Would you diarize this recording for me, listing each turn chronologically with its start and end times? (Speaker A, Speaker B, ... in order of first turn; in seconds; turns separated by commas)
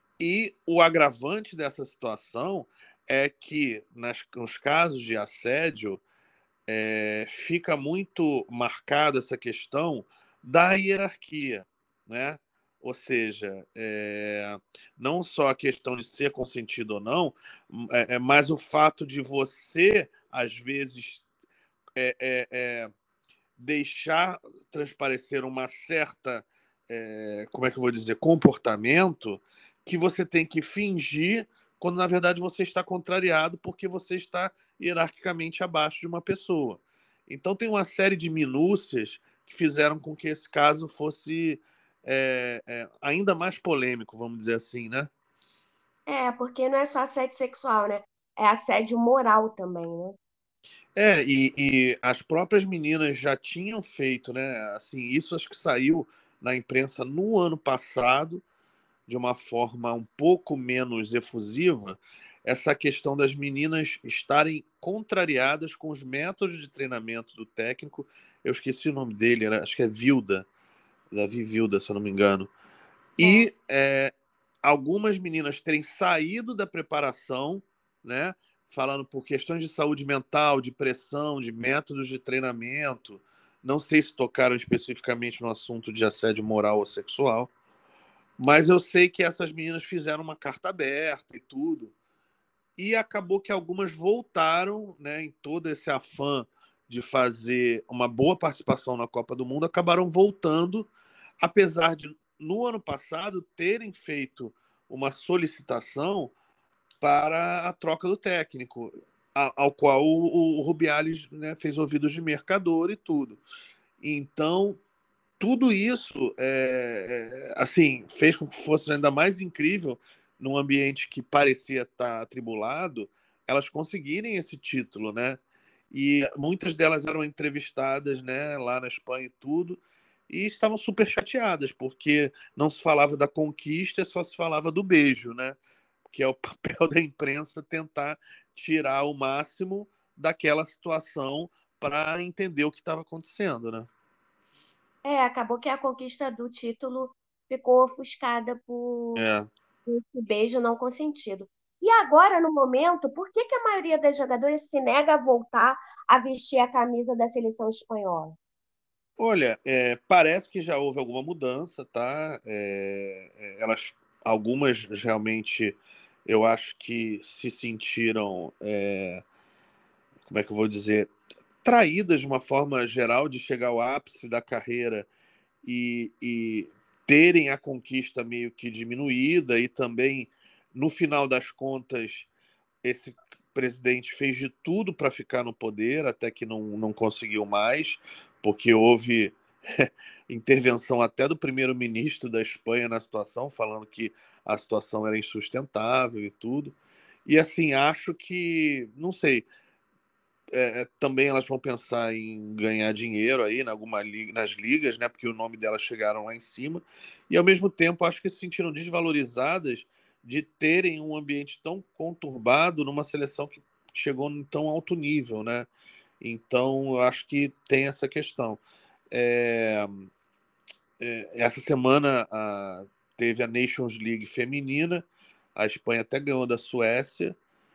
Speaker A: 0.2-6.0, Speaker A: 6.7-21.2, Speaker A: 21.9-22.9, Speaker A: 23.6-45.1, Speaker B: 46.1-50.2, Speaker A: 51.0-58.4, Speaker A: 59.1-70.5, Speaker A: 71.1-72.5, Speaker A: 73.2-74.1, Speaker B: 73.2-73.5, Speaker A: 74.6-87.5, Speaker A: 88.4-91.9, Speaker A: 92.8-100.9, Speaker A: 101.4-106.3, Speaker A: 107.0-113.4, Speaker A: 114.0-114.8, Speaker A: 115.4-125.4, Speaker A: 125.9-143.9, Speaker B: 145.0-149.2, Speaker A: 149.2-149.5, Speaker B: 149.9-158.4, Speaker A: 159.2-169.2, Speaker A: 170.2-171.1, Speaker A: 171.6-175.1, Speaker A: 175.6-182.3, Speaker A: 182.8-196.8, Speaker A: 197.2-199.5, Speaker A: 200.5-215.7, Speaker A: 216.2-218.6, Speaker A: 219.1-220.1, Speaker A: 221.0-227.3